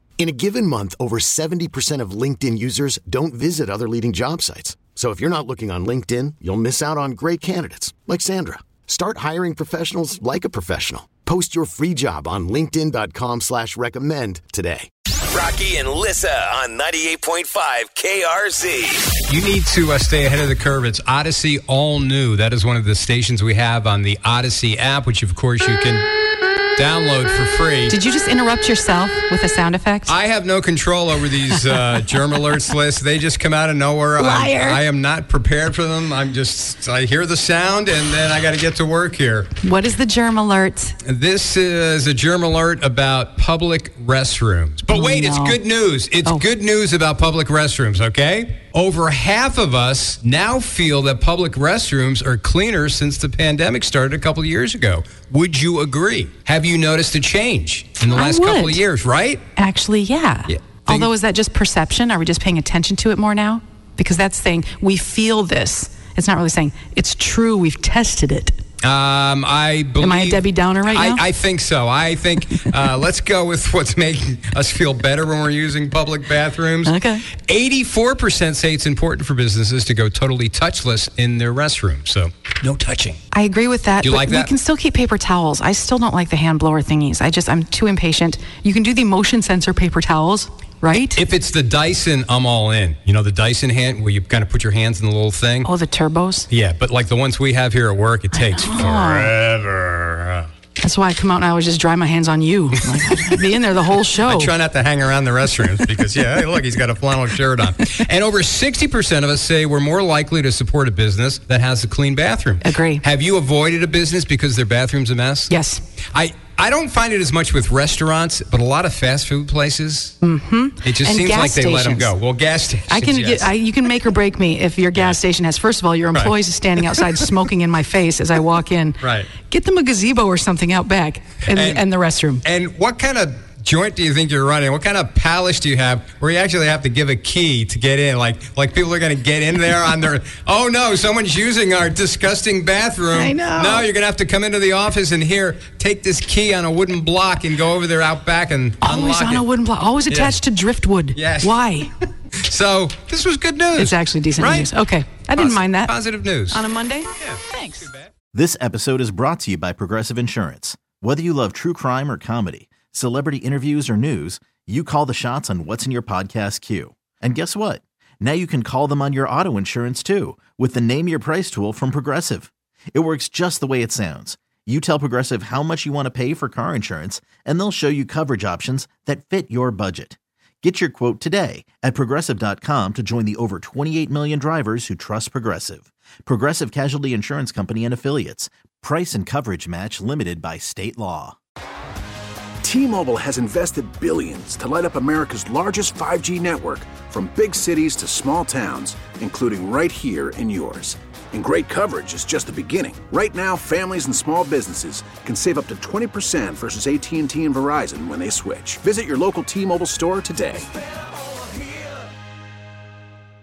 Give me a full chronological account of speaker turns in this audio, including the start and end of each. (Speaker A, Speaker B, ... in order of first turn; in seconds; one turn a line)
Speaker A: 0.2-14.9
Speaker B: 15.3-19.1
Speaker C: 19.3-26.0
Speaker C: 26.8-28.0
Speaker D: 27.9-30.1
Speaker C: 30.1-39.5
Speaker D: 34.2-34.8
Speaker D: 39.6-41.0
Speaker C: 41.0-59.4
Speaker D: 44.9-45.6
Speaker D: 58.1-58.8
Speaker D: 59.6-68.6
Speaker C: 60.5-61.1
Speaker C: 68.8-83.2
Speaker D: 70.0-71.2
Speaker D: 76.8-77.3
Speaker D: 83.3-91.2
Speaker C: 84.0-84.5
Speaker C: 91.2-95.7
Speaker D: 95.6-96.5
Speaker C: 96.5-100.5
Speaker D: 98.3-99.3
Speaker D: 100.8-104.5
Speaker C: 102.9-103.4
Speaker C: 104.2-115.5
Speaker D: 112.6-113.0
Speaker D: 115.5-115.8
Speaker C: 116.1-120.2
Speaker D: 120.2-122.1
Speaker C: 120.8-123.9
Speaker D: 122.9-132.4
Speaker C: 124.9-125.2
Speaker C: 126.1-127.3
Speaker C: 129.0-129.3
Speaker C: 131.5-131.9
Speaker C: 132.4-149.5
Speaker D: 143.1-143.9
Speaker D: 148.8-151.9
Speaker C: 150.1-150.4
Speaker C: 151.2-151.8
Speaker C: 152.4-156.6
Speaker D: 153.7-155.9
Speaker D: 156.5-157.9
Speaker C: 157.2-158.1
Speaker E: 158.3-191.4
Speaker F: 192.6-210.7